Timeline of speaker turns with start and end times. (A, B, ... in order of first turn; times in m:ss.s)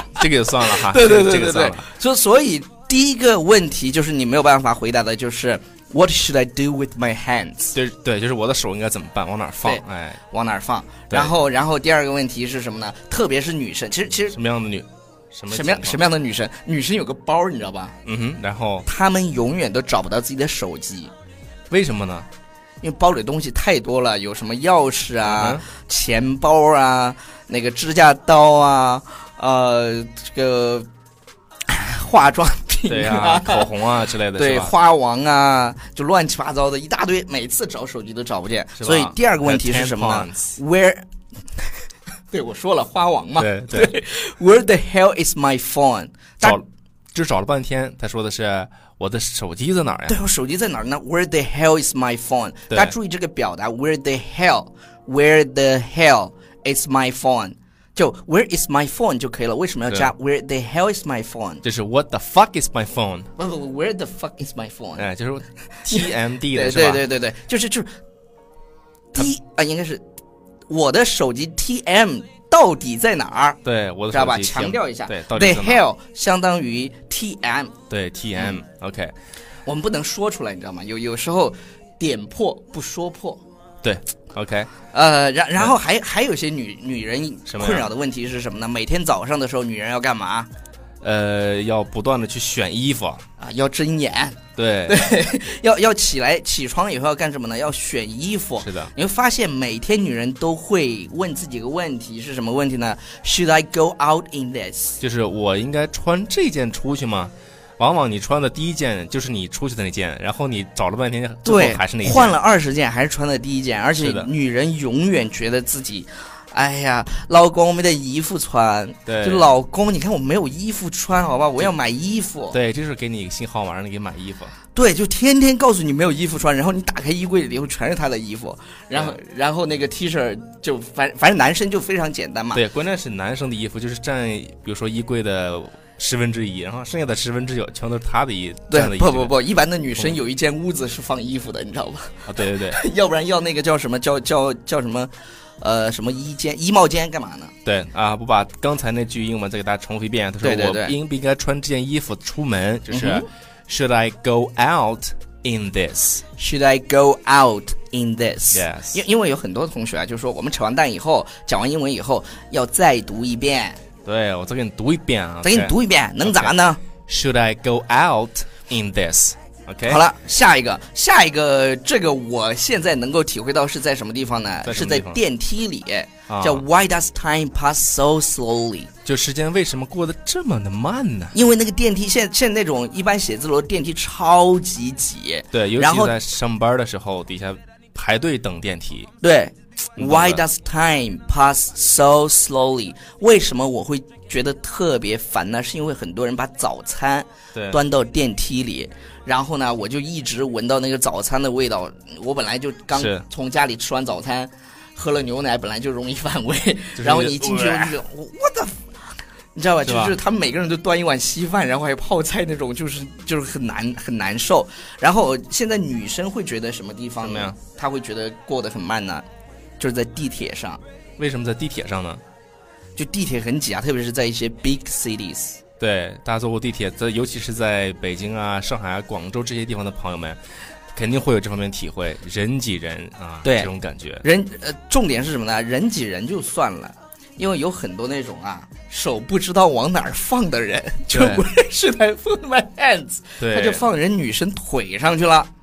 0:00.2-0:01.9 A
0:00.7-0:07.8 B
0:07.7-0:10.2 A
0:09.6-0:14.4 B
0:14.3-0:16.0 A
0:15.5-0:18.0 B
0:18.0-0:18.9 A
0:18.9-0:21.1 B
0:21.7-0:22.3 A
0:22.8-0:30.9 B
0:25.2-0:25.6 A
0:31.7-0:33.7 B
0:32.9-0:34.7 A
0:34.4-0:41.0 B
0:38.8-0:40.6 A
0:42.3-0:46.6 B
0:43.4-0:43.9 A
0:47.1-0:50.2 A
0:50.1-1:01.6 B
1:01.6-1:03.3 A
1:03.4-1:05.1 B
1:05.0-1:07.0 A
1:05.8-1:07.9 B
1:09.1-1:10.0 B
1:10.7-1:13.6 B
1:13.6-1:15.8 A
1:14.1-1:17.8 B
1:17.9-1:19.1 A
1:19.6-1:23.4 B
1:23.8-1:24.7 A
1:24.9-1:30.5 B
1:27.5-1:27.9 A
1:31.0-1:33.2 A
1:33.4-1:45.0 B
1:34.6-1:35.1 A
1:38.6-1:38.9 A
1:45.0-1:52.4 A
1:51.4-2:02.6 B
1:54.0-1:54.3 A
1:59.1-1:59.5 A
2:02.5-2:04.5 A
2:04.8-2:12.6 B
2:12.5-2:19.3 A
2:18.7-2:27.5 B
2:22.3-2:22.8 A
2:27.6-2:36.2 A
2:30.4-2:31.0 B
2:32.9-2:33.3 B
2:36.4-2:43.8 B
2:38.5-2:39.0 A
2:44.0-2:46.5 A
2:45.4-2:46.8 B
2:47.1-2:50.0 A
2:49.8-2:58.9 B
2:54.6-2:55.2 A
2:56.3-2:56.6 A
2:59.0-3:01.4 A
3:01.3-3:06.2 B
3:05.5-3:09.1 A
3:09.2-3:28.8 B
3:10.0-3:10.4 A
3:22.9-3:23.3 A
3:27.0-3:28.0 A
3:29.6-3:39.2 B
3:29.8-3:30.2 A
3:37.2-3:37.6 A
3:39.8-3:40.8 B
3:41.2-3:42.2 A
3:43.0-3:45.6 B
3:45.8-3:50.4 A
3:51.0-3:54.2 A
3:53.4-3:53.7 B
3:54.2-4:05.5 B
4:01.1-4:01.4 A
4:03.4-4:03.8 A